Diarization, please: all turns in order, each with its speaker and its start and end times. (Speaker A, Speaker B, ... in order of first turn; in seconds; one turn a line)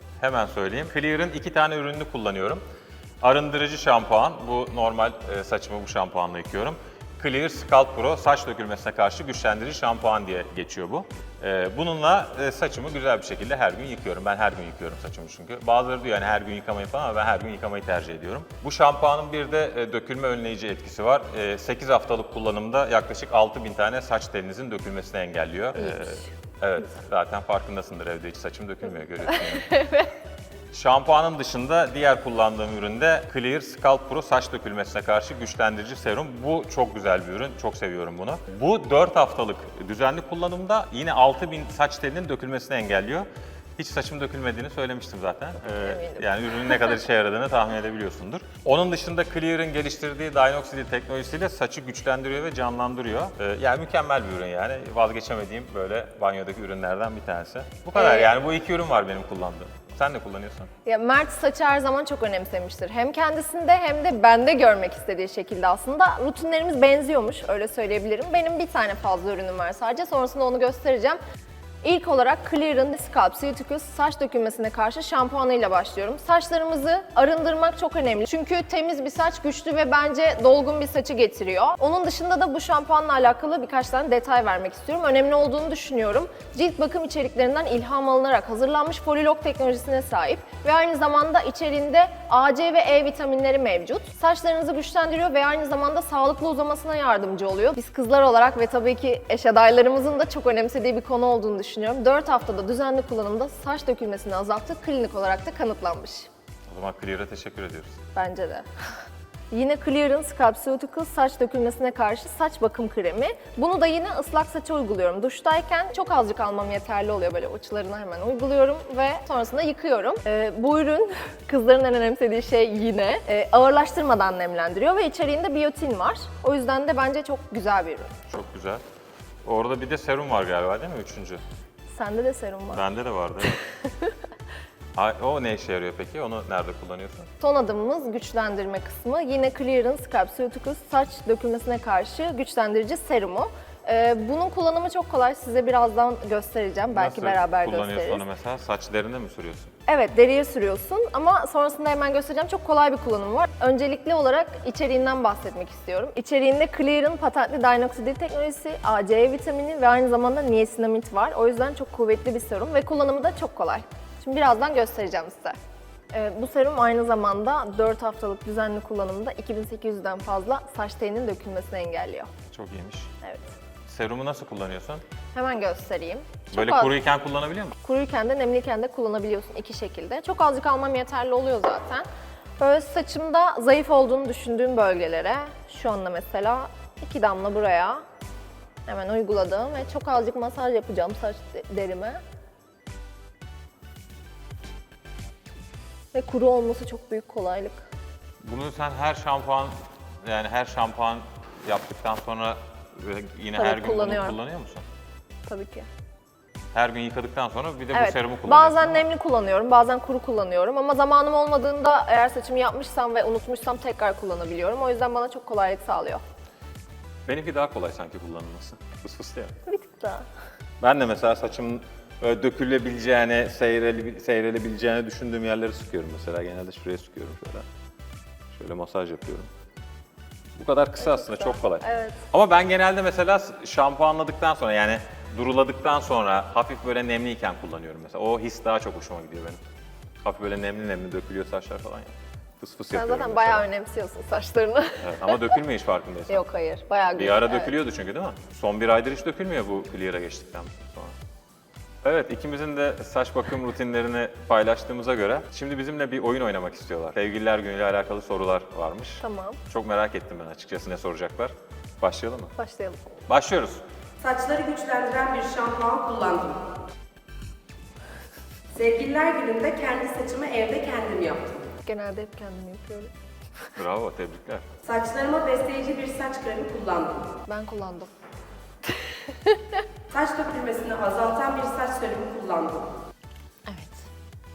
Speaker A: 0.2-2.6
Speaker A: 3.2-29.8
Speaker B: 25.7-26.3
Speaker B: 29.5-30.1
Speaker A: 30.7-60.7
Speaker B: 45.7-46.7
Speaker B: 57.9-58.3
Speaker B: 60.8-71.2
Speaker B: 71.8-106.3
Speaker A: 106.7-108.0
Speaker B: 108.1-108.7
Speaker B: 109.5-128.1
Speaker A: 128.3-128.8
Speaker A: 129.4-131.4
Speaker B: 131.9-132.8
Speaker A: 132.7-133.6
Speaker B: 133.6-134.1
Speaker A: 134.9-137.3
Speaker B: 137.4-148.2
Speaker A: 146.9-149.7
Speaker B: 149.9-165.6
Speaker B: 166.1-172.3
Speaker A: 172.5-173.1
Speaker B: 173.2-173.5
Speaker A: 173.8-175.0
Speaker B: 175.3-176.9
Speaker A: 176.5-177.8
Speaker B: 177.8-182.1
Speaker B: 182.6-188.0
Speaker B: 188.8-192.2
Speaker B: 196.1-197.9
Speaker A: 198.4-204.8
Speaker B: 203.5-204.4
Speaker B: 205.5-205.9
Speaker A: 206.7-209.0
Speaker B: 207.9-216.2
Speaker A: 217.2-219.5
Speaker B: 219.6-220.2
Speaker A: 220.8-227.7
Speaker A: 228.5-229.5
Speaker A: 230.6-239.6
Speaker B: 231.0-232.2
Speaker A: 240.2-243.7
Speaker B: 242.9-245.6
Speaker A: 245.0-246.4
Speaker B: 246.3-247.8
Speaker A: 247.1-251.1
Speaker A: 252.0-262.5
Speaker B: 259.2-259.6
Speaker B: 262.6-263.0
Speaker A: 263.3-263.8
Speaker C: 264.2-266.6
Speaker C: 268.7-271.6
Speaker B: 271.9-273.1
Speaker A: 273.7-274.6
Speaker C: 274.8-277.2
Speaker B: 277.5-278.1
Speaker B: 279.3-279.6
Speaker C: 280.1-282.9
Speaker B: 283.7-284.0